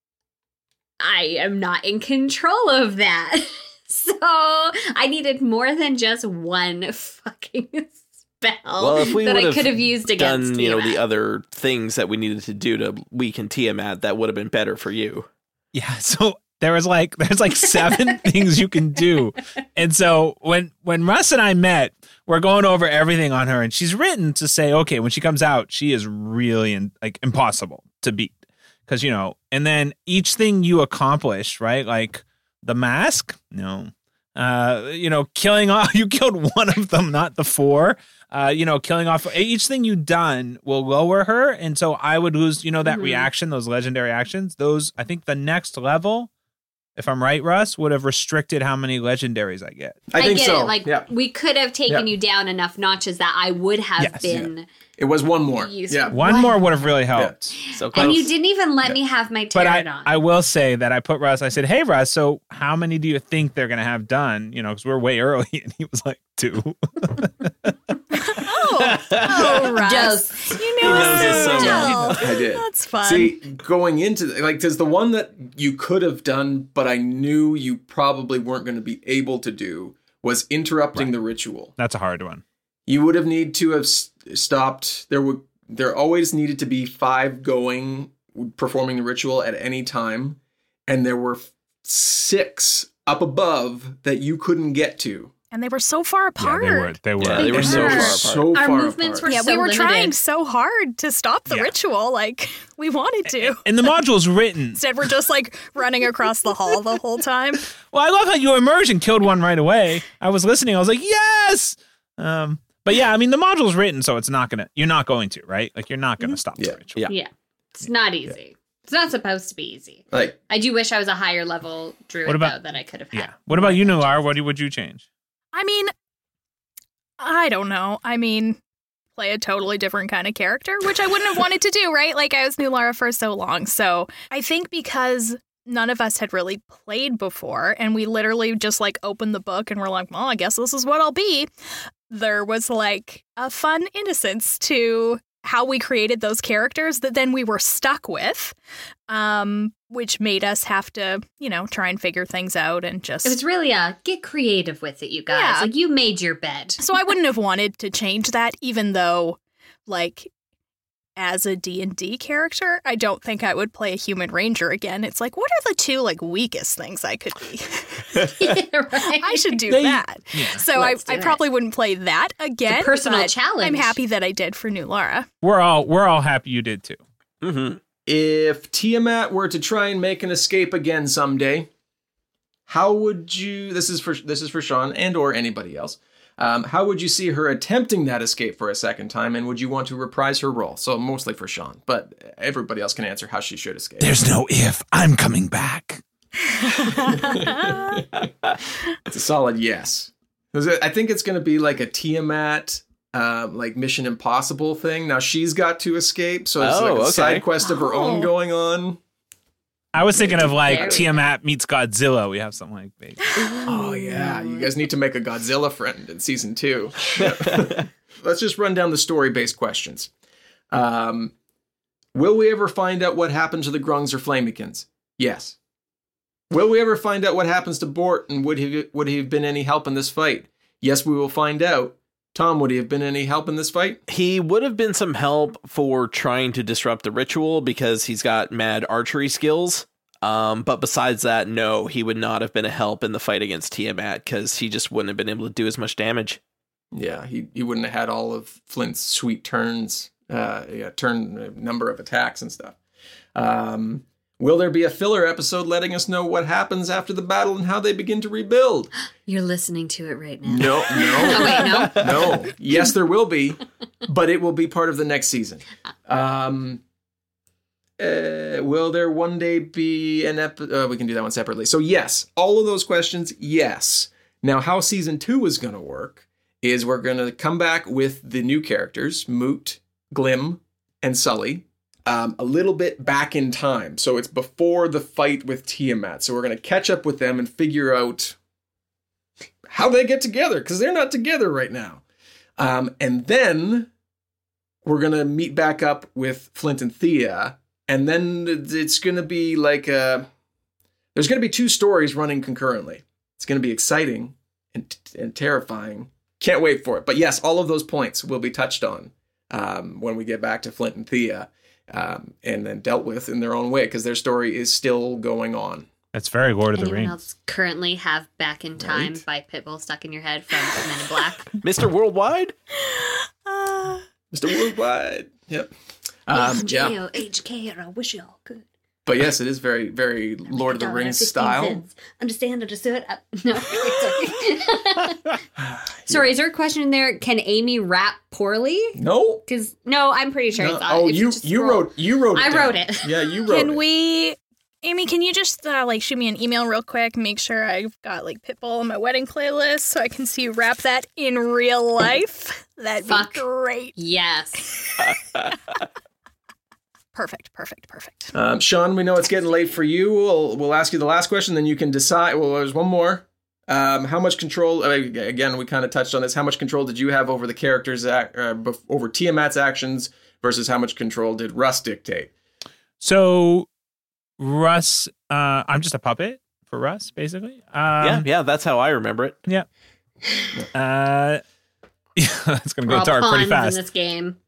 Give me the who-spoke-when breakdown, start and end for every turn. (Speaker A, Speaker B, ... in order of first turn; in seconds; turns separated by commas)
Speaker A: 1.0-11.0, Speaker B: 8.8-15.3, Speaker C: 15.7-28.4, Speaker C: 28.9-46.3, Speaker A: 42.9-43.3, Speaker C: 47.0-50.0, Speaker D: 50.1-51.1, Speaker A: 50.1-54.6, Speaker D: 54.2-56.2, Speaker A: 55.6-56.6, Speaker C: 56.1-57.6, Speaker B: 57.7-58.3, Speaker A: 57.7-60.1, Speaker D: 57.9-58.2, Speaker C: 59.5-67.7, Speaker E: 68.3-73.4, Speaker B: 68.8-69.8, Speaker A: 69.7-72.0, Speaker B: 70.8-72.2, Speaker D: 72.1-81.7, Speaker C: 81.8-82.4, Speaker D: 82.9-95.3, Speaker E: 95.5-97.0, Speaker C: 96.4-98.0, Speaker B: 97.2-98.5, Speaker A: 97.3-100.2, Speaker D: 97.4-99.3, Speaker E: 99.2-103.6, Speaker C: 101.5-101.7, Speaker C: 103.4-104.8, Speaker E: 104.7-107.7, Speaker C: 107.8-117.0, Speaker A: 117.1-123.8, Speaker D: 120.1-120.4, Speaker C: 122.2-122.5, Speaker C: 123.1-125.0, Speaker E: 125.5-125.9, Speaker E: 127.2-128.6, Speaker E: 129.2-141.5, Speaker E: 142.1-148.5, Speaker E: 149.1-153.4, Speaker A: 153.2-156.8, Speaker E: 155.3-155.7, Speaker E: 156.8-160.3, Speaker E: 161.2-168.3, Speaker A: 168.4-169.8, Speaker E: 169.1-175.3, Speaker C: 170.3-170.6, Speaker A: 170.7-171.4, Speaker A: 172.7-174.0, Speaker C: 175.4-177.0, Speaker B: 177.4-177.8, Speaker D: 178.1-181.7, Speaker D: 182.7-194.2, Speaker C: 194.0-196.0, Speaker D: 196.9-198.0, Speaker E: 197.0-197.4, Speaker D: 199.1-209.0, Speaker B: 206.6-207.5, Speaker E: 207.7-208.3, Speaker C: 209.9-213.2, Speaker D: 210.1-211.1, Speaker A: 210.6-211.3, Speaker A: 213.5-214.7, Speaker D: 213.6-220.1, Speaker B: 217.2-217.8, Speaker D: 220.7-221.3, Speaker D: 222.1-225.6, Speaker D: 226.5-234.0, Speaker B: 234.1-246.4, Speaker D: 246.9-252.8, Speaker D: 253.3-258.9, Speaker A: 259.3-262.5, Speaker D: 260.4-266.8, Speaker D: 268.0-288.4, Speaker D: 289.7-292.0, Speaker D: 292.6-293.9, Speaker D: 294.8-300.3, Speaker D: 301.1-315.9, Speaker C: 316.1-317.1, Speaker A: 316.8-321.5, Speaker D: 318.8-319.2, Speaker B: 321.6-322.6, Speaker E: 323.5-324.0, Speaker D: 324.3-325.7, Speaker D: 326.3-326.9, Speaker A: 326.3-328.6, Speaker D: 329.1-331.8, Speaker A: 330.5-335.2, Speaker D: 335.6-336.3, Speaker A: 336.1-343.1, Speaker D: 338.9-339.4, Speaker D: 340.6-343.8, Speaker E: 343.5-353.9, Speaker A: 353.1-354.7, Speaker E: 357.1-358.3, Speaker D: 358.3-372.3, Speaker C: 373.0-373.7, Speaker C: 374.4-378.3, Speaker B: 378.0-379.4, Speaker C: 380.7-381.4, Speaker C: 382.1-383.8, Speaker A: 382.9-384.4